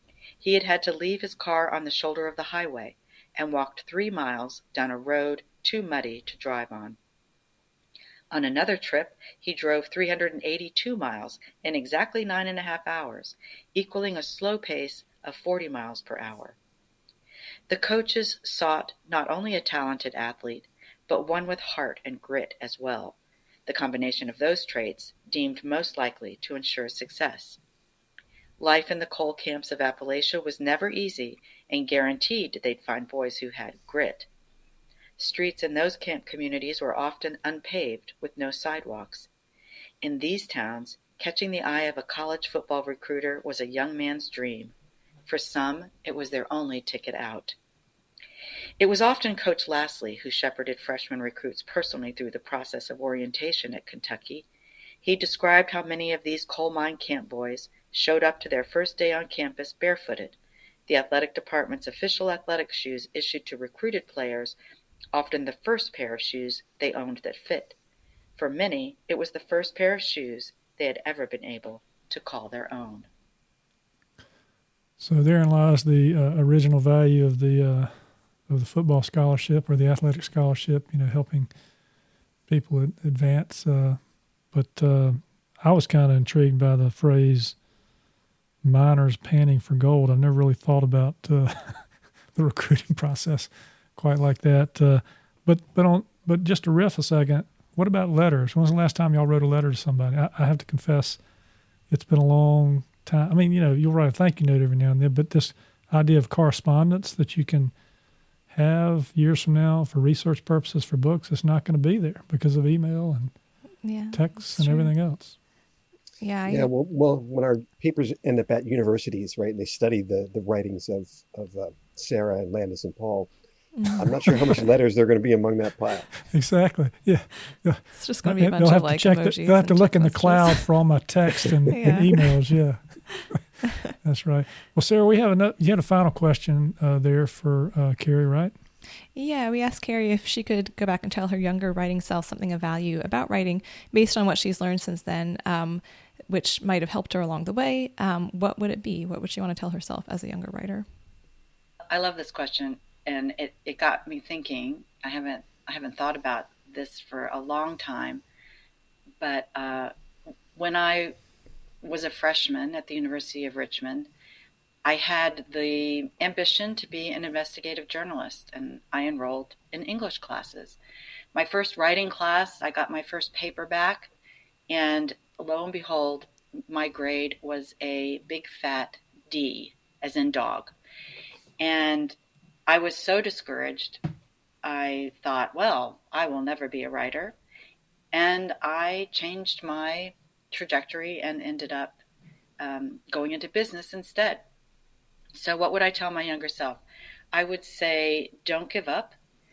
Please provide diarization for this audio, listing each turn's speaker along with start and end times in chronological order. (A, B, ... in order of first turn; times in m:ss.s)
0:00.4-0:07.0 A
0:08.3-0:16.6 A
0:17.7-0:27.6 A
0:28.6-0:34.3 A
0:35.2-0:39.3 A
0:40.0-0:44.7 A
0:45.3-0:47.6 A
0:48.8-0:54.5 A
0:55.0-1:00.4 A
1:00.9-1:04.6 A
1:05.1-1:07.8 A
1:08.4-1:13.1 A
1:15.0-1:18.0 B
1:18.5-1:21.5 B
1:22.5-1:24.0 B
1:24.5-1:27.6 B
1:28.6-1:41.2 B
1:41.9-1:47.7 B
1:48.5-1:53.3 B
1:53.8-1:54.9 C
1:54.1-1:55.4 B
1:56.2-1:56.7 C
1:56.5-2:03.3 D
2:03.8-2:04.0 C
2:03.9-2:06.1 D
2:06.3-2:13.4 B
2:07.9-2:10.6 C
2:11.7-2:12.1 C
2:14.0-2:18.5 B
2:19.2-2:30.9 C
2:31.9-2:38.2 A
2:39.2-2:39.9 A
2:40.6-2:41.2 A
2:41.8-2:44.1 A
2:44.8-2:50.8 A
2:51.3-2:54.1 A
2:54.7-3:00.7 A
3:01.6-3:04.0 A
3:04.6-3:07.4 A
3:08.1-3:12.0 A
3:12.6-3:14.5 A
3:15.4-3:19.2 A